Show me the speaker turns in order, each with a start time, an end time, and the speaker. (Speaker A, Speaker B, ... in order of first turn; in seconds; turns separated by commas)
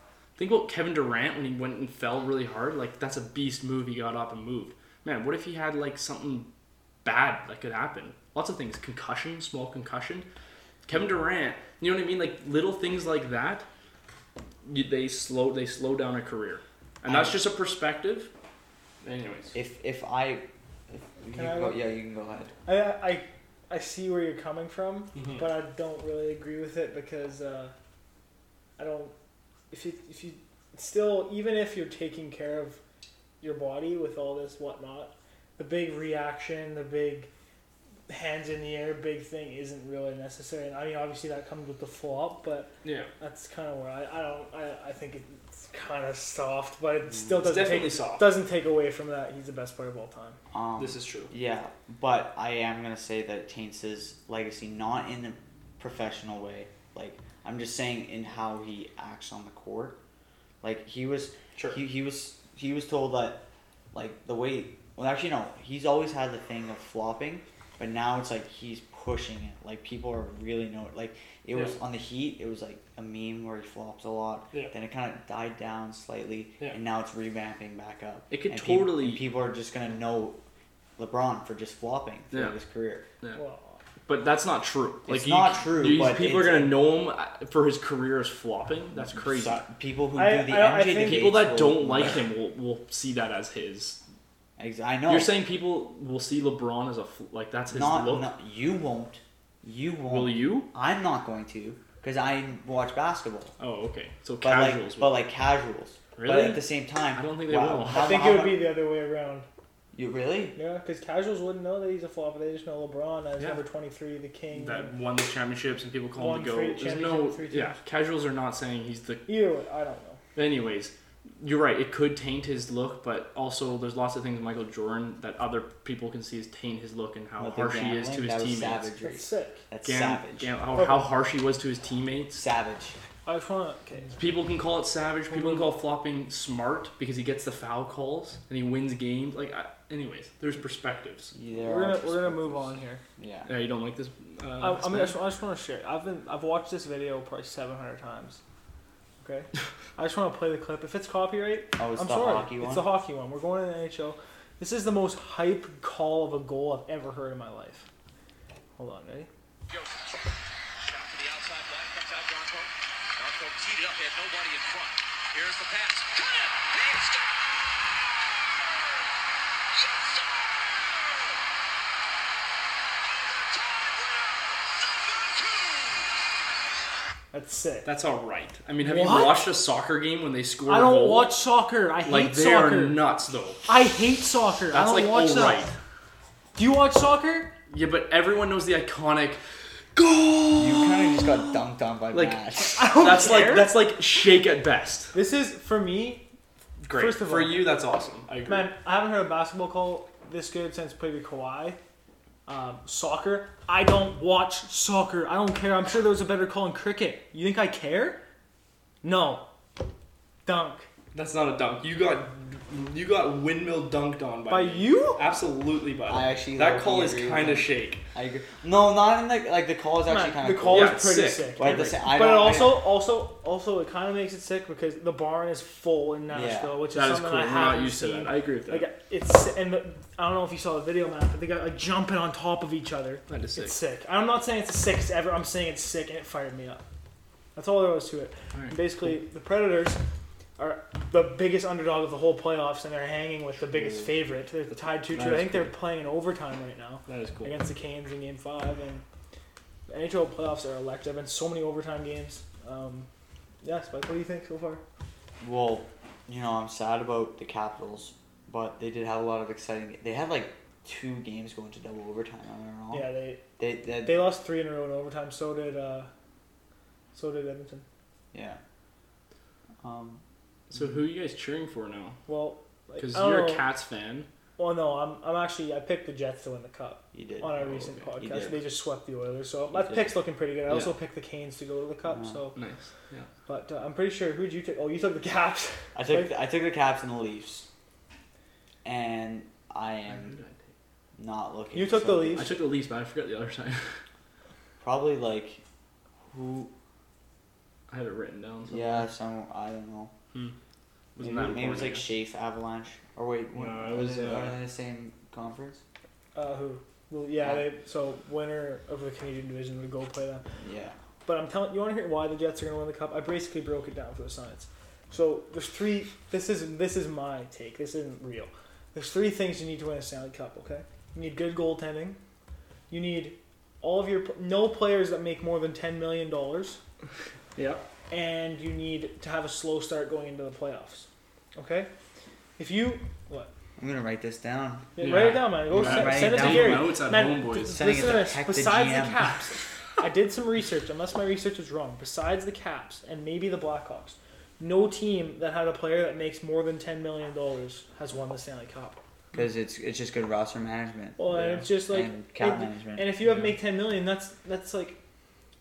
Speaker A: 0.4-6.5, Speaker A: 7.0-10.3, Speaker A: 10.9-13.7, Speaker A: 14.7-18.3, Speaker B: 17.1-17.4, Speaker A: 19.0-19.6, Speaker B: 19.5-22.5, Speaker C: 21.3-21.8, Speaker C: 22.7-27.7, Speaker A: 25.1-25.5, Speaker C: 28.8-29.1, Speaker C: 29.7-32.8, Speaker C: 33.4-37.3, Speaker C: 38.1-50.4, Speaker A: 42.8-43.1, Speaker A: 47.4-48.3, Speaker B: 50.5-60.0, Speaker A: 50.8-51.3, Speaker B: 60.6-63.4, Speaker B: 63.9-80.4, Speaker A: 78.3-79.2, Speaker B: 81.0-83.0, Speaker A: 82.3-82.6, Speaker C: 83.3-83.8, Speaker A: 84.1-89.6, Speaker B: 85.1-86.8, Speaker B: 89.0-92.3, Speaker C: 90.2-91.3, Speaker A: 91.0-94.0, Speaker B: 94.6-95.3, Speaker A: 95.1-98.3, Speaker B: 97.7-103.5, Speaker A: 100.1-100.7, Speaker A: 103.6-105.2, Speaker B: 104.4-108.7, Speaker A: 106.2-108.3, Speaker C: 107.9-109.5, Speaker B: 109.9-110.6, Speaker C: 110.5-114.9, Speaker A: 114.5-119.2, Speaker C: 116.2-117.8, Speaker C: 119.3-120.2, Speaker A: 120.3-128.9, Speaker B: 127.4-130.5, Speaker C: 129.0-129.6, Speaker A: 129.8-132.4, Speaker C: 130.8-131.1, Speaker B: 132.3-133.0, Speaker C: 133.3-134.2, Speaker A: 134.2-141.3, Speaker C: 135.3-135.7, Speaker B: 141.3-143.5, Speaker C: 141.6-143.0, Speaker A: 143.5-145.2, Speaker C: 144.6-148.4, Speaker C: 149.2-157.9, Speaker B: 151.8-152.9, Speaker C: 158.8-159.3, Speaker D: 159.7-169.1, Speaker D: 169.7-171.4, Speaker D: 173.0-176.2, Speaker C: 177.3-177.9, Speaker A: 177.8-181.3, Speaker C: 178.8-179.5, Speaker C: 180.7-183.0, Speaker A: 182.1-183.6, Speaker C: 183.7-185.7, Speaker A: 184.7-185.8, Speaker C: 186.6-187.5, Speaker A: 187.7-189.4, Speaker A: 189.9-195.1, Speaker B: 190.5-192.9, Speaker C: 192.8-193.7, Speaker C: 195.1-196.2, Speaker A: 196.8-198.7, Speaker C: 196.9-197.7, Speaker C: 198.5-201.8, Speaker C: 202.5-208.2, Speaker C: 209.0-209.4, Speaker C: 210.4-210.9, Speaker A: 211.1-218.0, Speaker C: 214.5-215.2, Speaker B: 216.1-221.0, Speaker C: 220.1-236.8, Speaker A: 220.7-222.0, Speaker B: 221.6-222.8, Speaker B: 226.3-226.8, Speaker A: 226.9-228.9, Speaker A: 233.3-233.8, Speaker C: 237.6-240.0, Speaker C: 240.6-249.0, Speaker A: 243.7-244.1, Speaker A: 244.7-245.7, Speaker A: 247.1-247.6, Speaker C: 249.9-253.1, Speaker C: 253.6-254.8, Speaker B: 255.4-264.3, Speaker C: 262.9-263.4, Speaker C: 264.0-266.1, Speaker C: 267.1-267.9, Speaker B: 268.3-268.6, Speaker B: 269.8-270.2, Speaker A: 270.7-272.2, Speaker C: 272.3-273.7, Speaker A: 273.0-274.3, Speaker C: 274.6-282.6, Speaker B: 277.1-277.5, Speaker A: 277.6-278.1, Speaker B: 278.2-278.6, Speaker B: 279.7-280.1, Speaker A: 280.7-280.9, Speaker B: 282.1-282.4, Speaker A: 282.6-283.3, Speaker C: 283.5-286.3, Speaker B: 285.9-287.7, Speaker B: 288.8-290.4, Speaker A: 290.1-290.7, Speaker B: 291.2-292.5, Speaker C: 291.7-292.5, Speaker A: 292.4-293.9, Speaker B: 294.8-295.6, Speaker B: 296.3-296.7, Speaker A: 297.9-299.1, Speaker B: 298.7-300.1, Speaker A: 301.2-302.1, Speaker B: 301.2-305.8, Speaker A: 303.5-304.6, Speaker C: 306.4-310.4, Speaker B: 307.4-307.7, Speaker B: 310.6-311.0, Speaker C: 311.3-322.2, Speaker C: 322.9-326.8, Speaker A: 327.6-327.8, Speaker C: 328.1-331.9, Speaker C: 332.6-333.5, Speaker B: 333.8-334.9, Speaker C: 335.0-349.0, Speaker A: 335.0-337.8, Speaker B: 335.7-336.9, Speaker B: 337.6-339.3, Speaker B: 349.3-351.2, Speaker C: 351.2-355.0, Speaker A: 351.3-351.7, Speaker B: 351.8-353.1, Speaker A: 353.3-353.5